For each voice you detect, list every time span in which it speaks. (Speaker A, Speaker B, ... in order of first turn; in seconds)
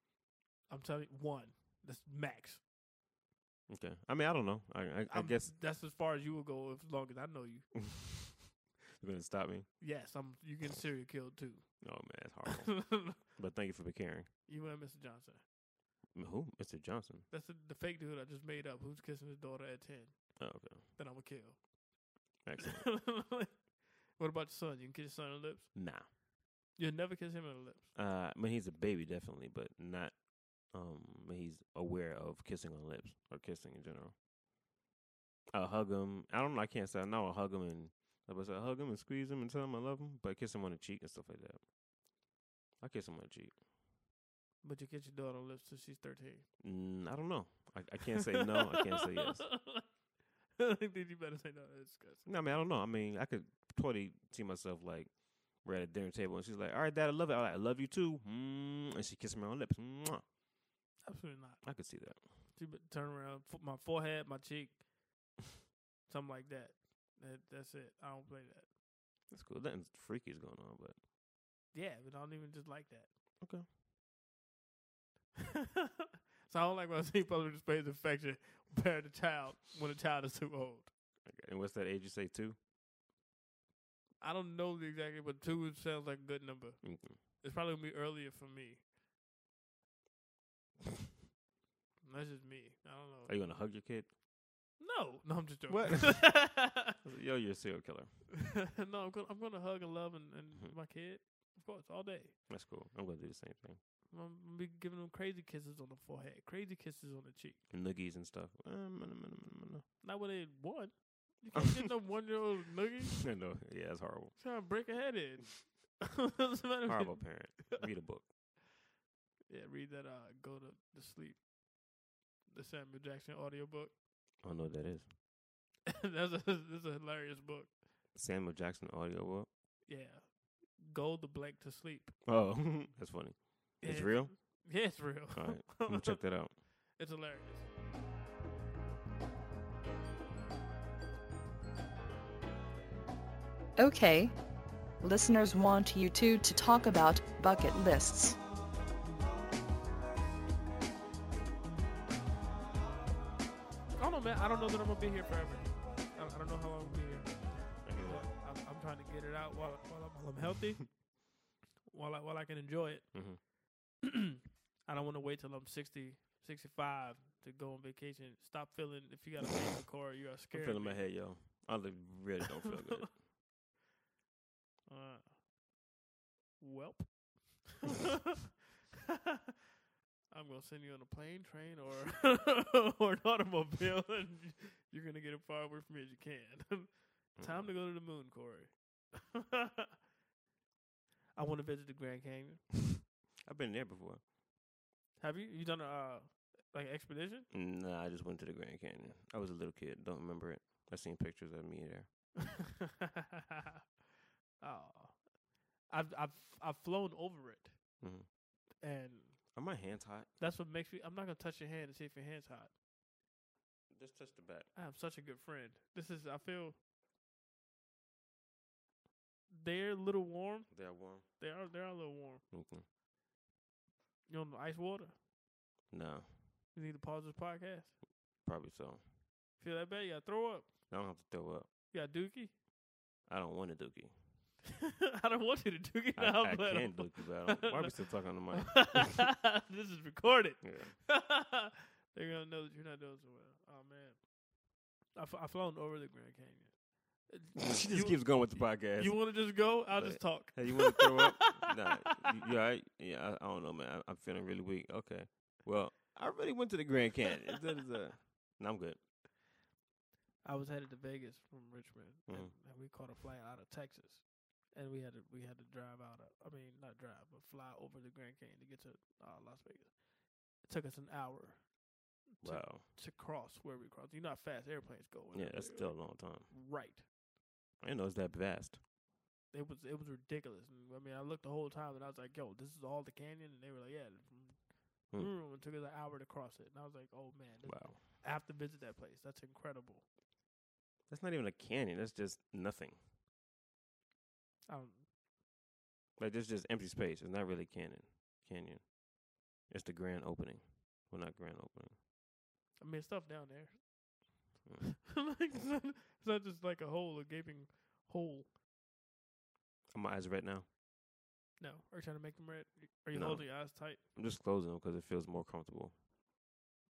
Speaker A: 0.7-2.6, 5.1-7.8, 9.8-13.2, 14.4-15.4, 17.3-21.7, 22.6-25.7, 26.7-27.9, 44.6-46.5, 48.6-49.8, 50.6-52.3, 61.0-64.8, 66.1-68.7, 71.7-73.1, 76.4-80.9, 84.2-88.8, 92.0-93.6, 94.8-96.9, 98.7-102.4, 104.1-107.6, 110.0-113.3, 114.3-117.8, 119.5-121.4, 122.5-123.9, 125.9-127.8, 129.9-132.2, 133.8-137.7, 154.0-161.1, 161.9-163.4, 164.8-171.1, 174.9-175.3, 176.6-178.0, 180.3-189.9, 191.3-192.8, 195.2-197.5, 204.6-205.3, 205.8-208.0, 208.8-209.6, 210.4-212.7, 214.7-216.8, 219.5-222.4, 224.3-225.1, 226.7-227.9, 229.6-230.9, 231.9-232.5, 235.2-244.3, 245.1-252.3, 260.4-271.7, 272.2-277.1, 279.5-290.1, 294.7-295.1, 302.8-304.0, 304.8-308.5, 311.6-314.0
Speaker B: 3.7-5.5, 7.9-8.3, 8.9-9.7, 11.8-14.3, 16.1-17.2, 20.4-20.8, 22.4-22.9, 25.7-26.1, 27.9-34.1, 35.5-41.6, 42.8-43.6, 46.6-49.5, 52.2-60.2, 61.6-62.2, 69.3-71.0, 73.4-73.7, 81.2-82.6, 86.8-87.2, 93.3-94.1, 95.7-98.3, 102.5-103.8, 107.7-109.8, 113.1-114.3, 116.8-118.3, 124.4-125.1, 128.1-129.5, 132.2-136.6, 157.8-158.3, 163.1-163.4, 170.5-173.2, 187.3-187.7, 193.4-194.2, 197.5-202.1, 208.0-208.3, 209.5-210.3, 213.9-214.7, 220.7-221.2, 222.5-222.8, 225.9-226.4, 228.4-229.1, 230.9-231.7, 233.3-234.2, 236.2-239.3, 240.6-241.0, 247.7-259.0, 262.3-262.5, 272.4-272.9, 275.3-276.5, 277.8-278.8, 287.6-288.0, 291.1-293.0, 296.2-299.0, 299.6-302.0, 309.9-310.7, 313.1-315.9
Speaker C: 143.8-144.4, 145.0-148.4